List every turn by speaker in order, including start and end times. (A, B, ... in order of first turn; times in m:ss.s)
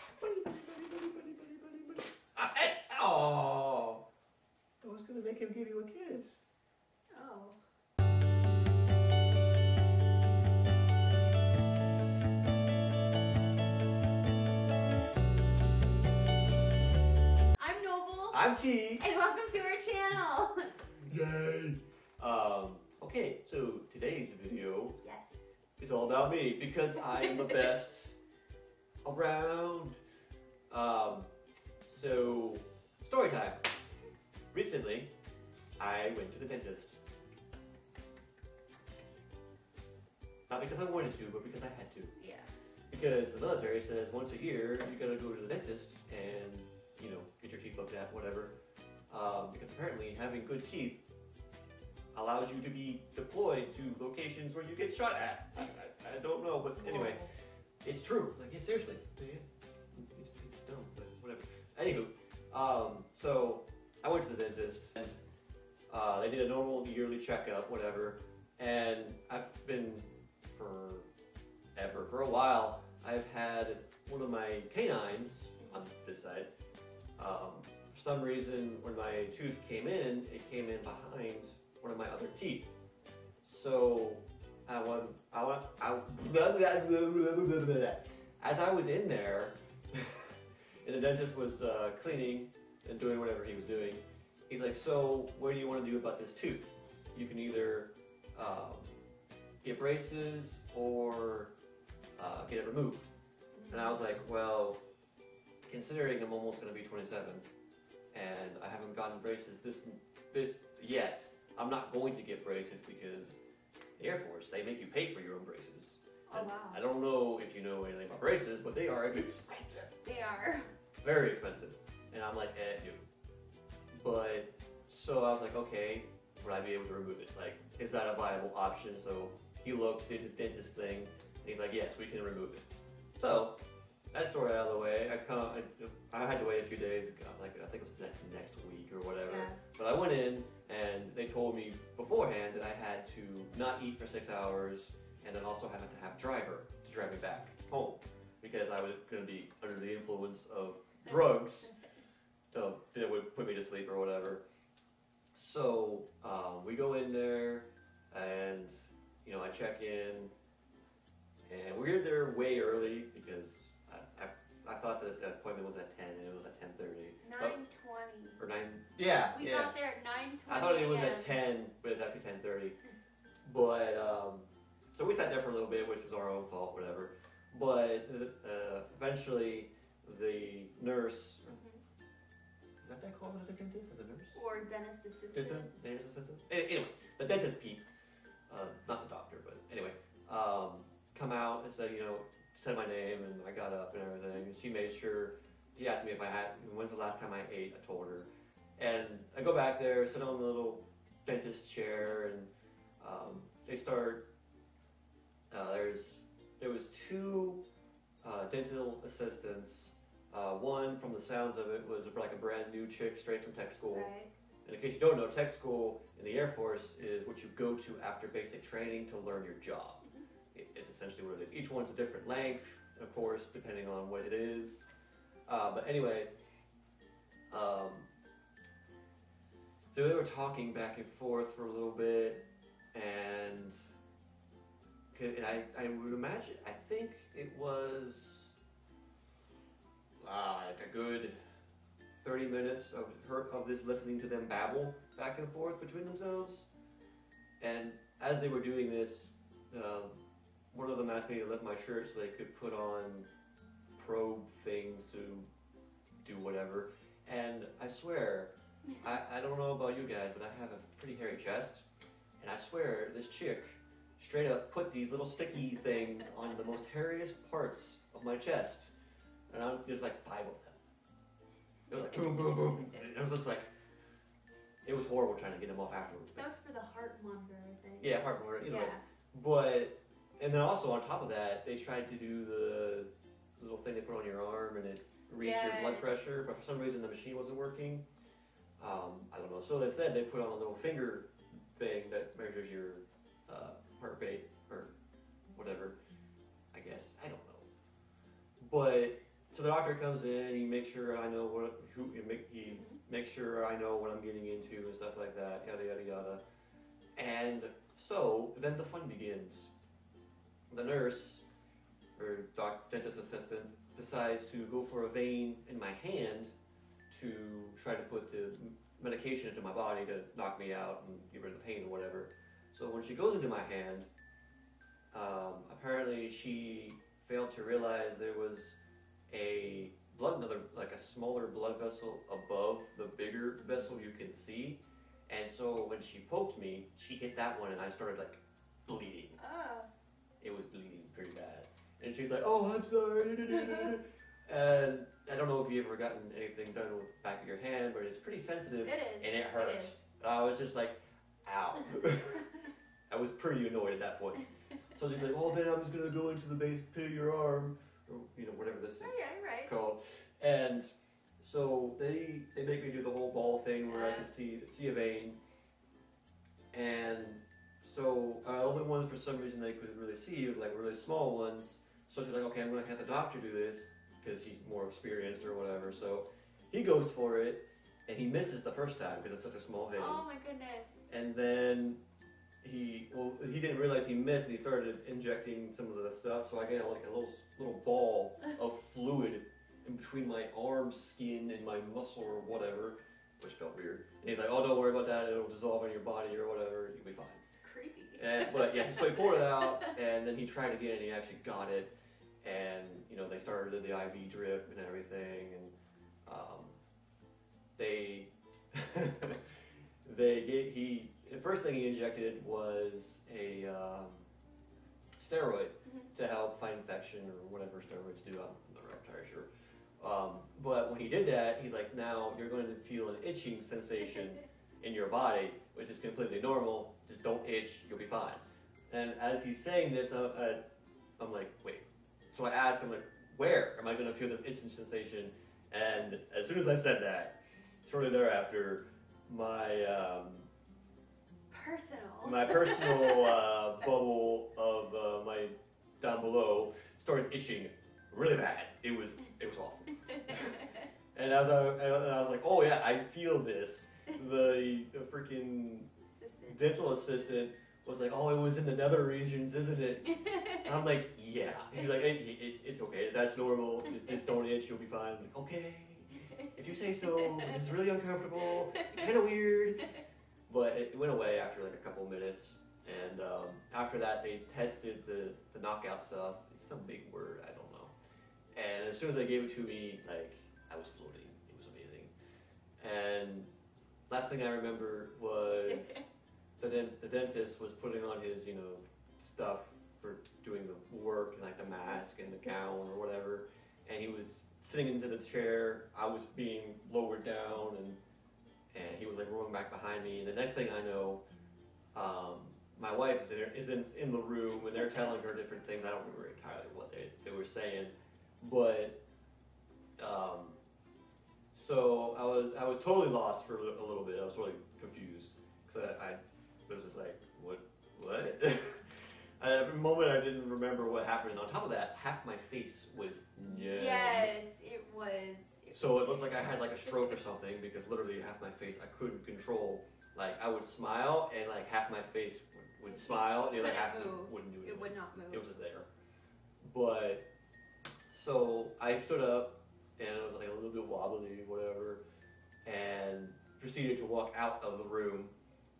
0:00.2-0:04.0 A
0:04.8-0:06.4 A
0:07.1-0:07.6 B
0:17.6-0:18.4 B
0:18.3-0:19.0 A
0:19.0-0:20.7 B
0:21.0-0:25.0 A
0:25.0-0:25.5 B
0:25.8-0:28.1 A
0:27.2-0:27.7 B
0:29.0-0:30.0 A
0:30.7-0:31.3 A
0:31.8-0:33.6 A
0:34.5-0:35.1 A
0:35.8-0:37.0 A
0:40.5-0:42.1 A
0:42.2-0:42.5 B
0:42.9-0:48.5 A
0:49.1-0:51.0 A
0:52.1-0:57.3 A
0:56.8-0:57.3 B
0:57.8-1:05.2 A
1:05.9-1:11.1 A
1:11.7-1:16.5 A
1:17.2-1:22.7 A
1:23.4-1:39.0 A
1:39.6-1:41.5 A
1:42.2-1:43.1 A
1:43.5-1:44.0 B
1:43.7-1:44.8 A
1:45.6-1:47.4 A
1:48.1-1:53.4 A
1:54.0-1:59.9 A
1:56.3-1:56.8 B
2:00.0-2:00.7 B
2:01.0-2:03.0 A
2:03.9-2:13.6 A
2:14.1-2:31.7 A
2:19.2-2:19.6 B
2:32.5-2:34.4 A
2:35.3-2:38.7 A
2:39.2-2:40.3 A
2:41.5-2:47.6 A
2:47.2-2:48.4 B
2:48.4-2:49.8 A
2:49.3-2:51.4 B
2:50.5-2:52.8 A
2:53.4-3:01.5 A
3:01.5-3:01.8 B
3:02.8-3:04.4 A
3:04.3-3:05.7 B
3:05.3-3:07.8 A
3:08.5-3:24.2 A
3:25.5-3:27.6 A
3:28.2-3:34.1 A
3:33.9-3:34.3 B
3:34.6-3:40.0 A
3:40.5-3:44.8 A
3:45.5-3:46.3 A
3:47.5-3:48.1 A
3:49.9-3:52.4 A
3:52.9-3:53.8 A
3:55.1-3:58.5 A
4:00.2-4:01.4 A
4:02.2-4:06.7 A
4:07.6-4:10.1 A
4:10.7-4:13.3 A
4:14.0-4:15.4 A
4:16.2-4:21.8 A
4:22.4-4:28.9 A
4:29.5-4:30.8 A
4:31.9-4:33.7 A
4:34.8-4:36.4 A
4:36.3-4:39.0 B
4:38.0-4:48.0 A
4:45.4-4:46.1 B
4:48.8-4:54.9 A
4:55.5-4:56.0 A
4:56.7-4:57.6 A
4:58.6-5:06.4 A
5:07.2-5:09.7 A
5:10.7-5:11.4 A
5:12.2-5:16.5 A
5:17.1-5:24.1 A
5:25.1-5:28.8 A
5:29.3-5:39.4 A
5:33.6-5:33.9 B
5:39.4-5:39.9 B
5:40.4-5:52.5 A
5:43.6-5:43.9 B
5:48.8-5:50.0 B
5:53.1-6:05.4 A
5:59.0-5:59.7 B
6:03.8-6:04.3 B
6:06.7-6:20.2 A
6:20.0-6:21.0 B
6:21.1-6:22.0 A
6:22.6-6:37.4 A
6:37.6-6:39.9 B
6:38.2-6:41.9 A
6:42.4-6:45.7 A
6:46.2-6:46.8 A
6:47.8-6:49.4 A
6:50.0-6:54.3 A
6:55.2-6:59.5 A
6:55.8-6:56.1 B
7:00.0-7:10.6 A
7:11.2-7:20.5 A
7:21.5-7:23.4 B
7:22.2-7:30.6 A
7:30.0-7:30.8 B
7:31.1-7:35.9 A
7:36.1-7:36.6 B
7:36.4-7:40.1 A
7:40.0-7:40.8 B
7:40.6-7:49.9 A
7:47.0-7:47.7 B
7:48.6-7:49.1 B
7:50.5-7:57.9 A
7:58.5-8:02.1 A
8:02.8-8:03.5 A
8:04.1-8:18.0 A
8:05.6-8:06.0 B
8:18.7-8:21.2 A
8:21.9-8:29.0 A
8:30.0-8:30.6 A
8:31.5-8:44.3 A
8:43.4-8:47.1 B
8:45.7-8:55.9 A
8:52.8-8:55.5 B
8:56.6-8:57.2 A
8:58.1-9:02.0 A
9:02.6-9:05.3 A